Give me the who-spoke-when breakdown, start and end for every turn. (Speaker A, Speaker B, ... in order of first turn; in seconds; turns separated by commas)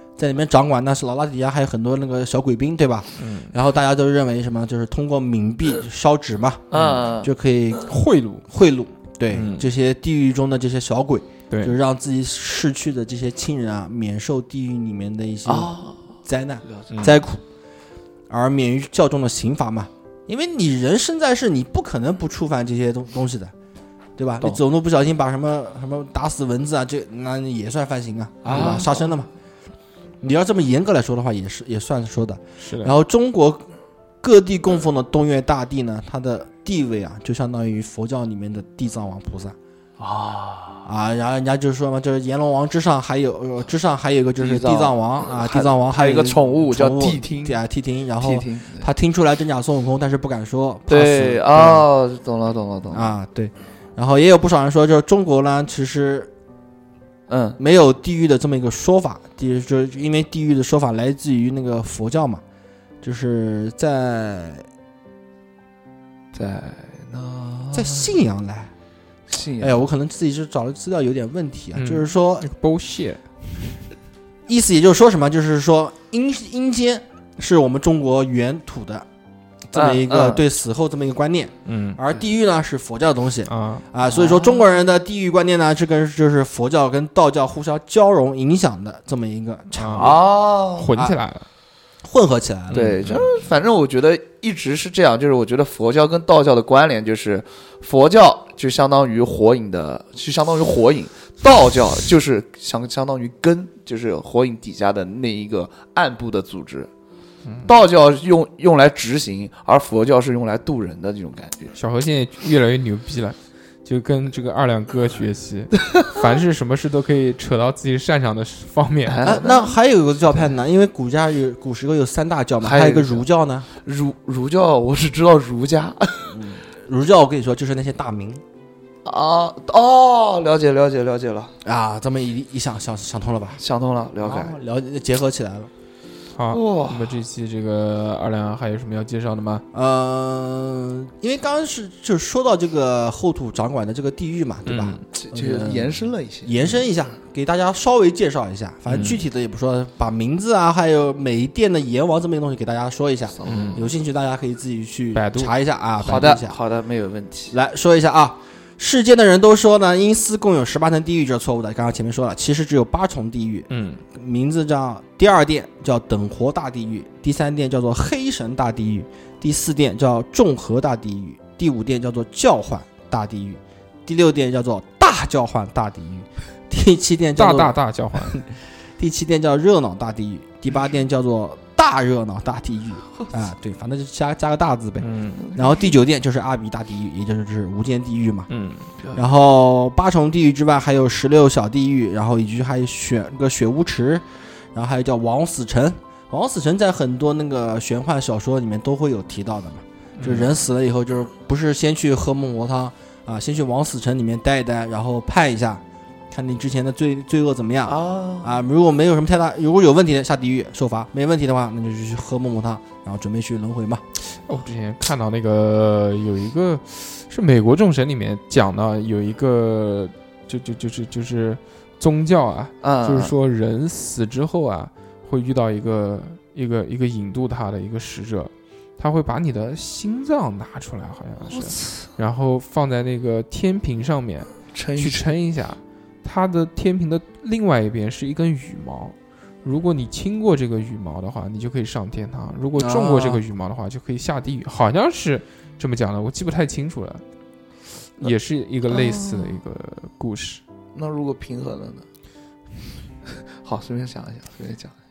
Speaker A: 0.2-8.0, Speaker B: 3.2-3.5, Speaker C: 6.7-7.3, Speaker B: 6.7-7.0, Speaker B: 7.9-8.4, Speaker A: 8.5-17.4, Speaker B: 9.3-9.7, Speaker B: 11.5-11.7, Speaker C: 15.4-16.0, Speaker C: 16.6-17.0, Speaker B: 16.9-17.2, Speaker A: 18.3-23.5, Speaker A: 24.2-29.3, Speaker B: 28.4-28.8, Speaker C: 28.5-29.1, Speaker A: 30.2-33.6, Speaker B: 32.6-32.9, Speaker A: 34.2-39.5, Speaker C: 40.0-40.8, Speaker A: 40.9-51.9, Speaker C: 44.4-47.6, Speaker C: 48.2-48.9, Speaker C: 50.9-53.1, Speaker A: 52.9-56.3, Speaker C: 57.3-57.6, Speaker A: 57.6-62.4, Speaker A: 63.0-64.7, Speaker C: 66.3-68.1, Speaker A: 67.7-68.7, Speaker C: 69.3-69.8, Speaker A: 69.6-72.5, Speaker B: 71.8-73.2, Speaker A: 74.5-79.0, Speaker A: 79.7-90.2, Speaker C: 79.7-80.4, Speaker B: 81.7-82.0, Speaker B: 83.5-83.8, Speaker C: 84.0-84.6, Speaker B: 89.8-90.2, Speaker C: 89.9-90.9, Speaker B: 90.8-91.5, Speaker A: 90.9-91.2, Speaker A: 92.0-92.9, Speaker B: 92.7-93.3, Speaker C: 92.7-106.9, Speaker B: 107.5-107.7, Speaker C: 107.6-111.7, Speaker B: 111.7-119.4, Speaker C: 115.9-116.2, Speaker C: 119.1-119.7, Speaker A: 119.2-123.7, Speaker C: 122.6-123.2, Speaker C: 123.8-126.4, Speaker A: 126.3-128.4, Speaker C: 129.0-131.5, Speaker A: 131.6-133.6, Speaker C: 133.6-134.6, Speaker A: 134.2-135.7, Speaker B: 136.3-139.6, Speaker C: 136.5-137.2, Speaker A: 139.7-145.9, Speaker B: 144.7-145.0, Speaker C: 145.1-146.7, Speaker A: 146.4-156.6, Speaker B: 148.9-149.2, Speaker C: 153.3-153.8, Speaker B: 153.5-153.8, Speaker B: 155.1-155.5, Speaker C: 156.0-157.6, Speaker A: 157.5-188.5, Speaker B: 163.7-164.0, Speaker B: 177.3-178.4, Speaker B: 185.0-185.4, Speaker C: 185.4-185.9, Speaker B: 188.5-188.9, Speaker A: 189.2-214.0, Speaker B: 200.2-200.5, Speaker C: 207.8-208.6, Speaker B: 214.3-247.2, Speaker C: 222.8-223.3, Speaker C: 231.5-232.1, Speaker C: 234.7-235.2, Speaker A: 242.8-243.4, Speaker B: 248.2-250.6, Speaker C: 248.9-249.6, Speaker C: 250.9-252.1, Speaker C: 253.2-254.9